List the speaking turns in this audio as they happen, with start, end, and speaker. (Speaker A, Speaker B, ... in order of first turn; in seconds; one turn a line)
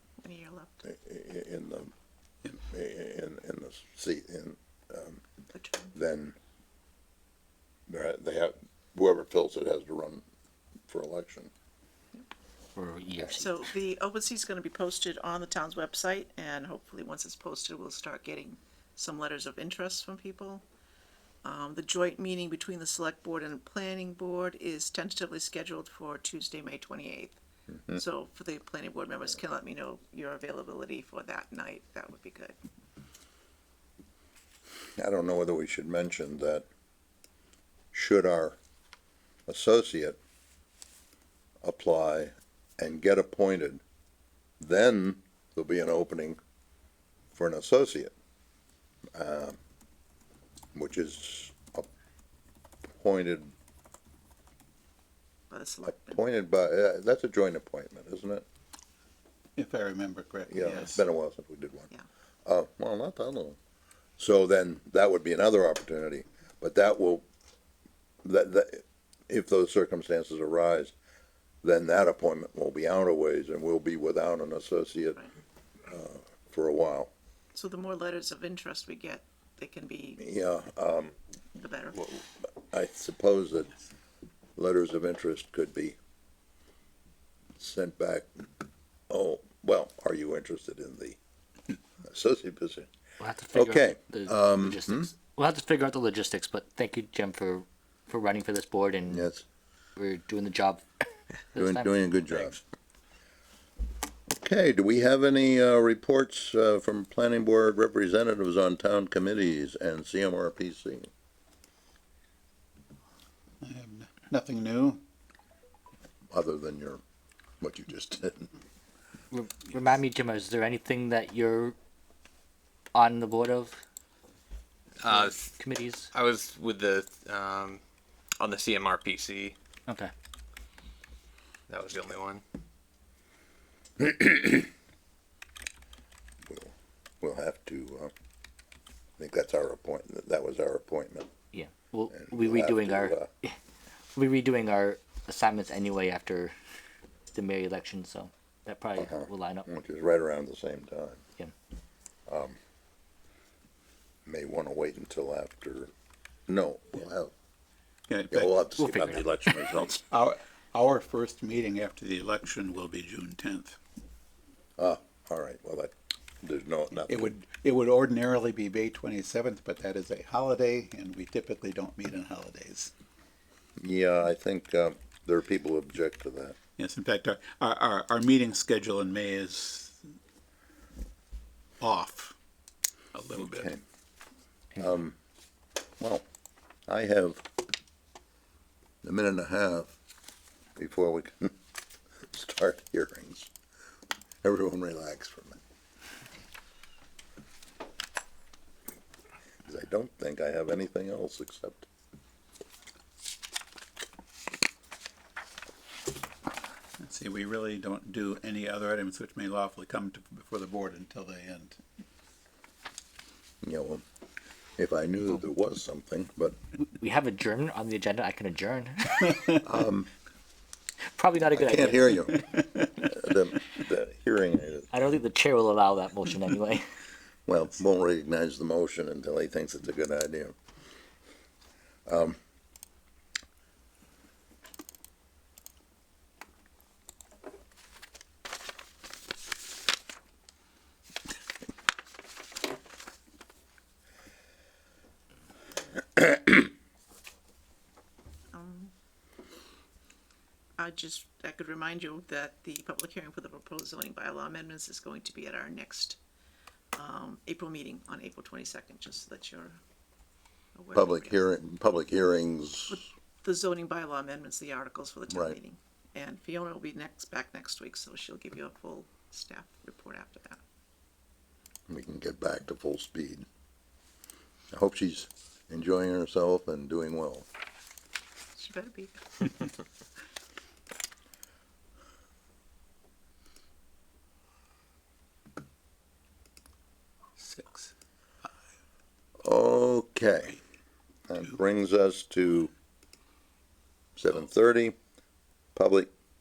Speaker A: 0.2-0.8
Speaker B: 0.8-1.9
Speaker B: 2.5-5.2
Speaker A: 5.5-5.9
Speaker B: 5.9-6.3
Speaker B: 7.9-10.2
Speaker B: 10.9-11.5
Speaker C: 12.8-13.8
Speaker A: 13.2-20.6
Speaker A: 21.4-27.4
Speaker A: 27.9-32.5
Speaker B: 35.0-36.6
Speaker B: 37.9-38.6
Speaker B: 39.5-40.2
Speaker B: 41.6-43.8
Speaker B: 44.6-46.4
Speaker B: 47.3-48.1
Speaker B: 49.1-49.6
Speaker B: 50.7-51.9
Speaker B: 52.9-53.5
Speaker A: 55.5-56.2
Speaker B: 55.8-58.4
Speaker D: 59.6-61.1
Speaker B: 60.5-61.9
Speaker B: 62.4-63.6
Speaker B: 64.2-67.2
Speaker B: 68.2-70.9
Speaker B: 71.6-75.2
Speaker B: 75.8-77.1
Speaker A: 77.5-80.2
Speaker B: 80.2-81.1
Speaker A: 81.5-82.1
Speaker B: 82.0-83.7
Speaker B: 84.6-86.0
Speaker B: 87.6-88.5
Speaker B: 89.1-91.2
Speaker B: 92.0-92.9
Speaker C: 93.2-99.3
Speaker B: 93.5-95.1
Speaker B: 99.1-99.4
Speaker C: 100.0-100.8
Speaker C: 101.5-102.0
Speaker B: 101.6-102.6
Speaker B: 104.3-111.1
Speaker D: 113.6-115.0
Speaker B: 116.3-117.0
Speaker B: 117.6-118.5
Speaker C: 119.3-121.7
Speaker C: 122.9-123.8
Speaker E: 125.0-125.4
Speaker C: 125.0-126.1
Speaker E: 126.1-127.8
Speaker E: 128.4-129.6
Speaker C: 129.9-130.1
Speaker E: 131.7-132.4
Speaker B: 134.0-134.7
Speaker B: 136.5-138.1
Speaker B: 139.2-141.3
Speaker C: 141.5-143.6
Speaker B: 142.1-143.3
Speaker C: 144.1-146.5
Speaker C: 147.3-149.7
Speaker B: 149.0-151.2
Speaker B: 152.3-152.6
Speaker B: 154.2-155.9
Speaker B: 156.5-157.3
Speaker D: 158.1-158.6
Speaker B: 158.3-160.1
Speaker C: 158.8-159.2
Speaker D: 160.1-163.8
Speaker B: 164.8-167.3
Speaker D: 167.1-172.9
Speaker B: 173.8-176.6
Speaker D: 176.8-180.1
Speaker D: 181.8-182.3
Speaker D: 183.1-183.7
Speaker B: 183.3-183.8
Speaker B: 184.8-185.2
Speaker B: 186.9-187.4
Speaker B: 189.0-189.9
Speaker B: 190.8-191.5
Speaker B: 192.3-193.5
Speaker B: 194.4-195.6
Speaker B: 199.6-201.9
Speaker D: 207.0-211.8
Speaker B: 213.6-214.0
Speaker B: 214.8-216.6
Speaker C: 217.0-219.6
Speaker B: 219.6-220.1
Speaker C: 221.1-222.2
Speaker B: 221.5-224.9
Speaker C: 224.9-226.8
Speaker B: 227.5-230.6
Speaker B: 232.1-232.4
Speaker A: 248.5-248.9
Speaker A: 250.8-256.2
Speaker A: 256.9-259.8
Speaker A: 260.7-261.4
Speaker B: 260.9-263.0
Speaker A: 262.9-270.6
Speaker B: 265.3-265.6
Speaker B: 271.9-273.4
Speaker B: 274.7-277.5
Speaker A: 278.6-279.7
Speaker D: 287.4-287.9
Speaker B: 289.4-290.6
Speaker B: 291.3-292.7
Speaker B: 294.2-294.9
Speaker B: 295.7-296.1